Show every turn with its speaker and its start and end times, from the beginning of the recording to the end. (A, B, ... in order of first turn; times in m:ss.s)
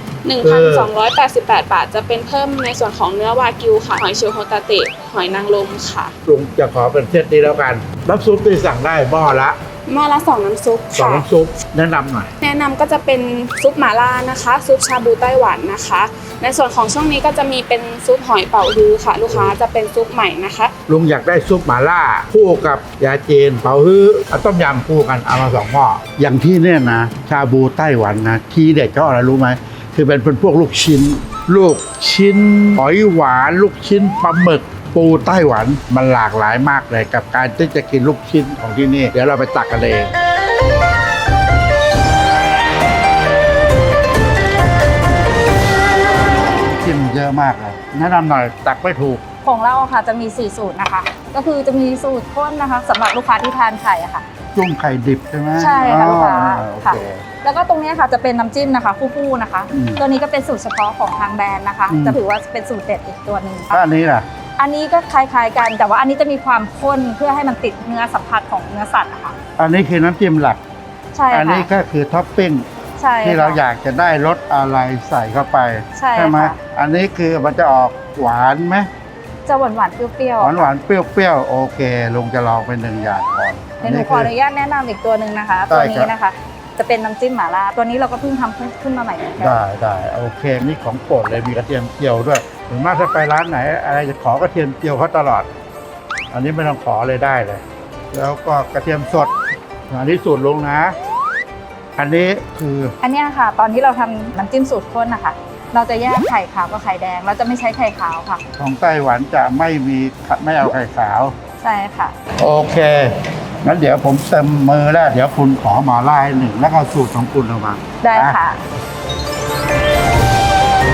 0:00.2-0:06.1 A
0:00.4-0:00.9 B
0:06.2-0:09.6 B
0:09.9-0:11.3 A
0:10.9-0:12.3 B
0:12.4-0:20.7 A
0:20.9-0:40.1 B
0:46.6-0:49.2 B
0:49.4-0:54.2 C
0:54.5-0:57.2 B
0:55.6-1:03.8 C
0:59.7-1:00.0 B
1:01.9-1:02.2 B
1:03.7-1:04.3 B
1:04.6-1:09.4 C
1:09.6-1:10.6 B
1:11.1-1:11.7 C
1:11.3-1:12.6 B
1:13.0-1:13.6 C
1:13.2-1:18.9 B
1:16.0-1:16.6 C
1:19.4-1:20.7 C
1:20.4-1:24.3 B
1:23.8-1:29.6 C
1:25.7-1:26.1 B
1:29.4-1:35.5 B
1:36.3-1:39.3 B
1:39.9-1:40.9 B
1:42.0-1:42.9 B
1:43.0-1:48.4 C
1:48.6-1:51.3 B
1:51.6-1:52.1 C
1:52.4-1:58.4 B
1:58.0-1:58.6 C